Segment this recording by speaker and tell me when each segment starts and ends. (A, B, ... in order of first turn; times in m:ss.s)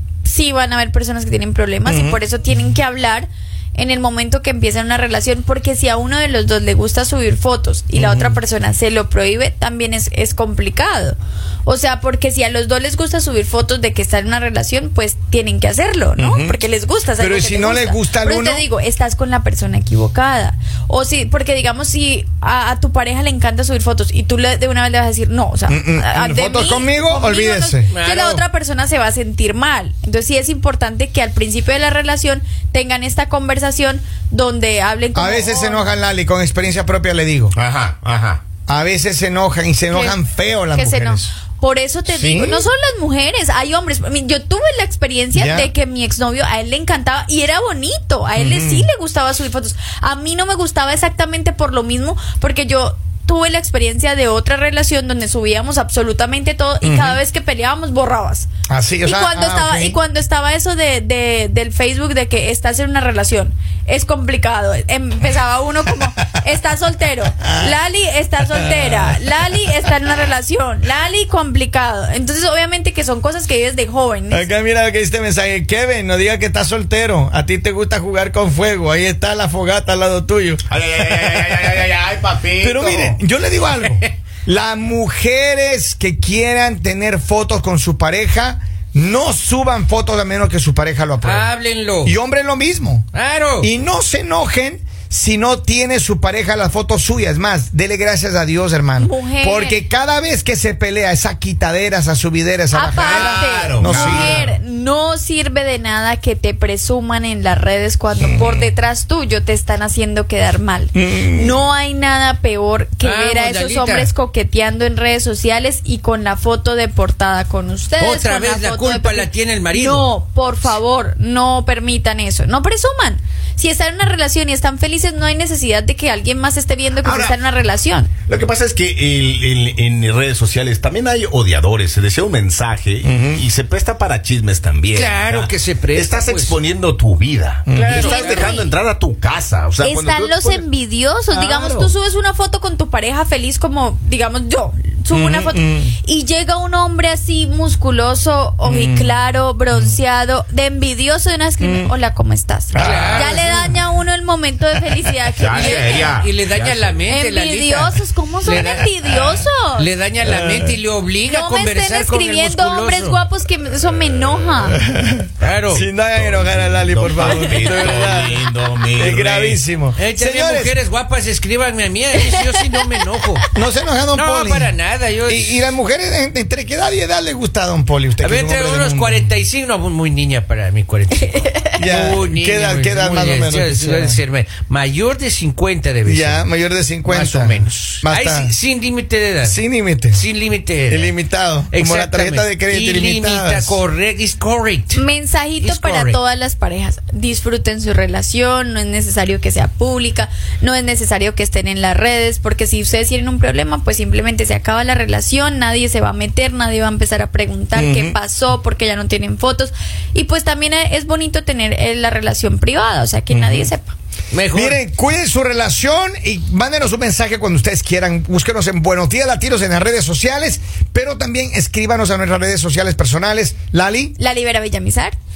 0:00.2-0:35.9 A
0:01.8-0:02.2 B
0:07.9-0:08.4 B
0:16.2-0:16.6 B
0:17.2-0:18.6 B
0:25.7-0:27.9 B
0:27.9-0:28.4 C
0:35.1-0:37.5 B
0:37.5-0:38.4 D
0:38.7-0:41.3 B
0:39.9-0:40.2 A
0:40.7-0:58.5 A
0:42.1-0:42.6 D
0:45.3-0:45.7 B
0:48.4-0:48.9 B
0:56.8-0:57.2 B
0:58.7-1:00.0 B
0:59.0-1:14.4 A
1:07.4-1:07.8 B
1:08.6-1:09.1 B
1:14.3-1:20.6 B
1:20.7-1:23.2 D
1:22.6-1:31.5 B
1:31.2-1:32.2 C
1:32.0-1:44.5 B
1:33.1-1:33.7 C
1:39.0-1:39.8 A
1:42.7-2:08.1 A
1:42.9-1:44.5 D
1:48.2-1:48.6 B
1:50.9-1:51.6 B
1:53.0-1:54.1 C
1:58.0-2:00.1 C
2:07.0-2:07.4 D
2:08.3-2:20.6 D
2:13.0-2:13.4 B
2:14.9-2:16.6 C
2:17.7-2:18.2 B
2:17.7-2:18.5 C
2:17.9-2:18.7 A
2:19.8-2:36.3 A
2:21.3-2:21.9 B
2:25.1-2:26.0 B
2:28.6-2:29.2 B
2:29.7-2:30.0 B
2:31.6-2:31.9 B
2:32.7-2:33.7 B
2:32.8-2:33.5 C
2:35.4-2:37.0 D
2:35.4-2:38.9 C
2:37.0-2:39.9 A
2:39.7-2:43.2 C
2:40.2-2:40.7 B
2:41.3-2:44.8 A
2:44.8-2:50.8 B
2:45.4-2:45.8 C
2:45.7-2:49.6 D
2:49.9-2:53.4 C
2:53.5-2:54.7 B
2:54.1-2:55.6 C
2:55.2-2:59.2 B
2:58.2-3:06.5 C
3:01.8-3:04.2 B
3:06.0-3:08.5 B
3:07.0-3:11.1 C
3:09.4-3:10.2 B
3:10.9-3:13.8 B
3:11.7-3:15.0 C
3:14.9-3:33.9 A
3:15.6-3:16.2 C
3:27.7-3:28.2 B
3:33.3-3:33.7 B
3:34.3-3:34.8 C
3:34.5-3:44.2 B
3:44.2-3:45.2 A